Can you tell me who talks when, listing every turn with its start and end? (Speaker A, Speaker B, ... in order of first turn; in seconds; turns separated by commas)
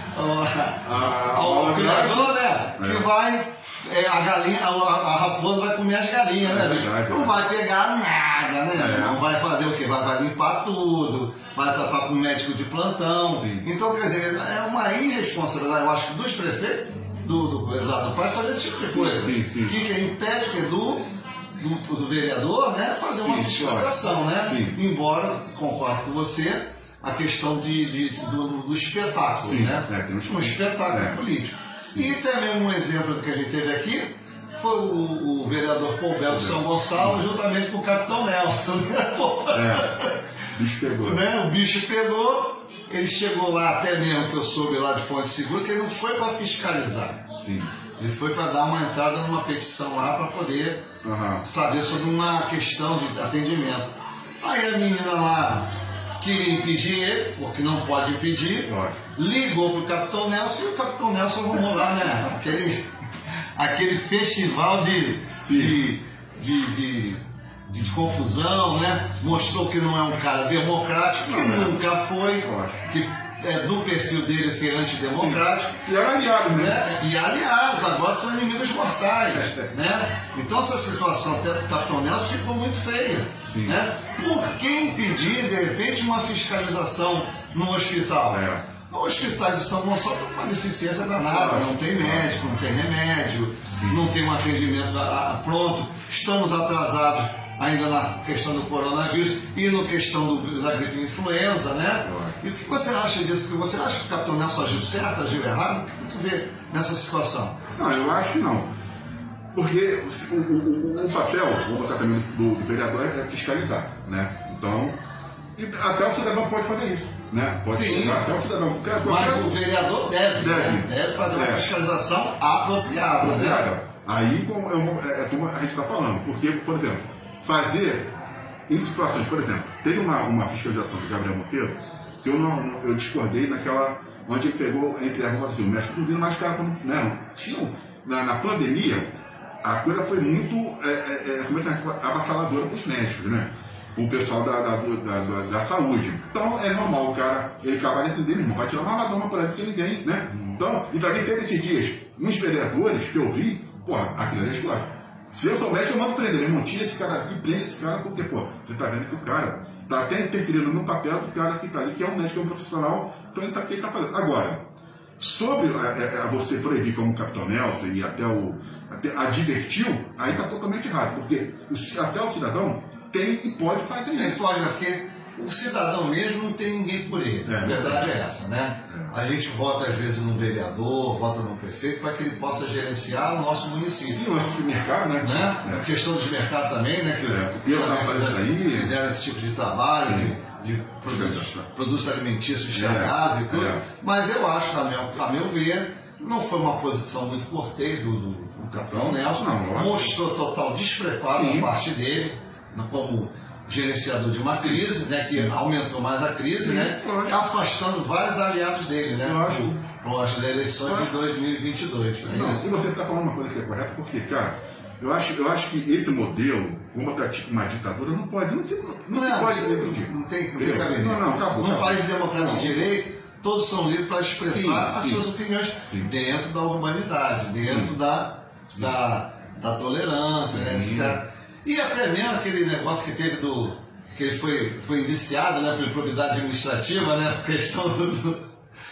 Speaker A: 0.1-40.2, Speaker B: 0.8-3.1, Speaker B: 6.4-7.4, Speaker B: 8.8-9.2, Speaker B: 13.4-13.7, Speaker B: 18.9-19.8, Speaker B: 23.2-24.8, Speaker B: 29.4-31.2, Speaker B: 36.3-37.2, Speaker B: 39.5-39.9, Speaker B: 40.5-41.2, Speaker A: 41.0-47.3, Speaker B: 47.3-47.7, Speaker A: 48.0-50.9, Speaker B: 51.0-51.5, Speaker A: 51.4-62.9, Speaker B: 58.7-59.0, Speaker A: 63.5-75.8, Speaker B: 65.3-65.8, Speaker B: 71.2-72.9, Speaker B: 75.2-76.9, Speaker A: 76.5-107.6, Speaker B: 79.3-79.7, Speaker B: 83.4-83.8, Speaker B: 88.3-88.6, Speaker B: 91.3-92.4, Speaker B: 93.7-94.0, Speaker B: 102.0-102.4, Speaker B: 107.8-108.7, Speaker B: 109.5-115.0, Speaker B: 115.6-119.6, Speaker A: 117.7-118.2, Speaker A: 119.0-123.7, Speaker B: 120.4-121.7, Speaker B: 123.2-128.1, Speaker B: 128.7-139.1, Speaker B: 139.6-164.6, Speaker B: 165.2-174.4, Speaker A: 174.2-184.2, Speaker B: 177.4-178.1, Speaker B: 184.1-185.9, Speaker A: 185.2-212.7, Speaker B: 187.3-188.9, Speaker B: 190.1-190.3, Speaker B: 191.1-191.6, Speaker B: 192.7-193.8, Speaker B: 198.6-200.2, Speaker B: 201.3-201.7, Speaker B: 204.5-205.5, Speaker B: 206.6-207.4, Speaker B: 209.2-209.8, Speaker B: 210.8-211.1, Speaker B: 212.2-222.8, Speaker A: 219.1-238.4, Speaker B: 224.4-225.3, Speaker B: 225.8-226.1, Speaker B: 227.6-227.9, Speaker B: 230.5-231.2